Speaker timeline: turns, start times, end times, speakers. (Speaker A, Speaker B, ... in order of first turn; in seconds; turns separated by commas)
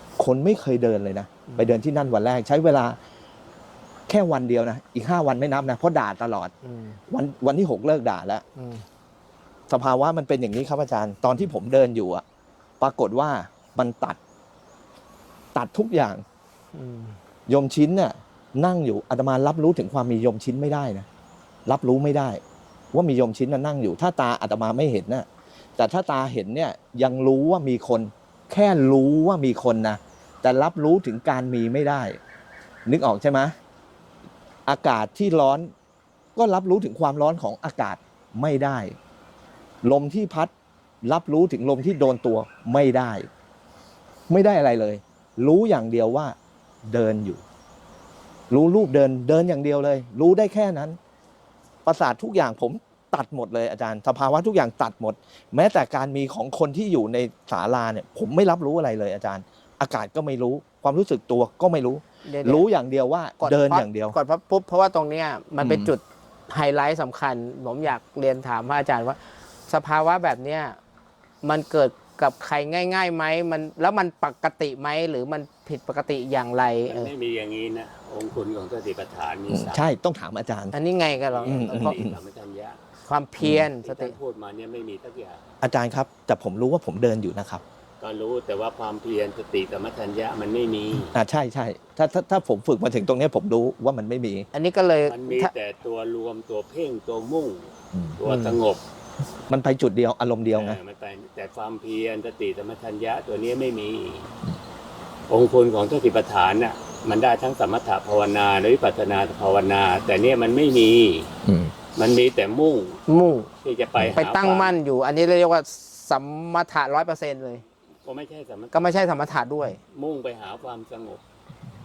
Speaker A: 0.2-3.0, Speaker B: 1.5-1.8, Speaker A: 4.1-6.5, Speaker B: 6.6-7.0, Speaker A: 7.1-8.4, Speaker B: 8.5-8.8, Speaker A: 9.7-12.2, Speaker A: 12.8-14.2, Speaker A: 15.5-16.2, Speaker B: 16.7-17.2, Speaker A: 17.5-21.1, Speaker A: 21.7-25.2, Speaker A: 25.8-32.2, Speaker A: 32.9-33.5, Speaker A: 34.6-35.7, Speaker A: 36.4-39.0, Speaker A: 39.8-40.5, Speaker A: 41.0-43.3, Speaker A: 44.3-47.4, Speaker A: 48.5-51.0, Speaker A: 51.9-64.1, Speaker B: 62.2-62.6, Speaker B: 63.4-70.8, Speaker A: 65.6-65.9, Speaker B: 71.4-77.1, Speaker C: 76.9-79.8, Speaker A: 79.5-80.7, Speaker B: 80.7-82.0, Speaker C: 81.1-82.8, Speaker A: 81.5-82.2, Speaker B: 83.0-84.2, Speaker A: 83.4-83.7, Speaker C: 83.8-85.4, Speaker A: 85.6-87.6, Speaker C: 88.0-91.1, Speaker A: 91.1-94.5, Speaker B: 94.5-95.5, Speaker C: 95.1-98.8, Speaker B: 98.2-98.6, Speaker A: 99.5-100.8, Speaker C: 100.5-104.3, Speaker C: 105.3-111.3, Speaker A: 111.4-111.7, Speaker C: 111.9-113.0, Speaker B: 113.1-113.5, Speaker C: 113.6-114.8, Speaker B: 114.1-117.6, Speaker C: 118.0-119.2, Speaker B: 118.7-119.8, Speaker C: 119.9-121.2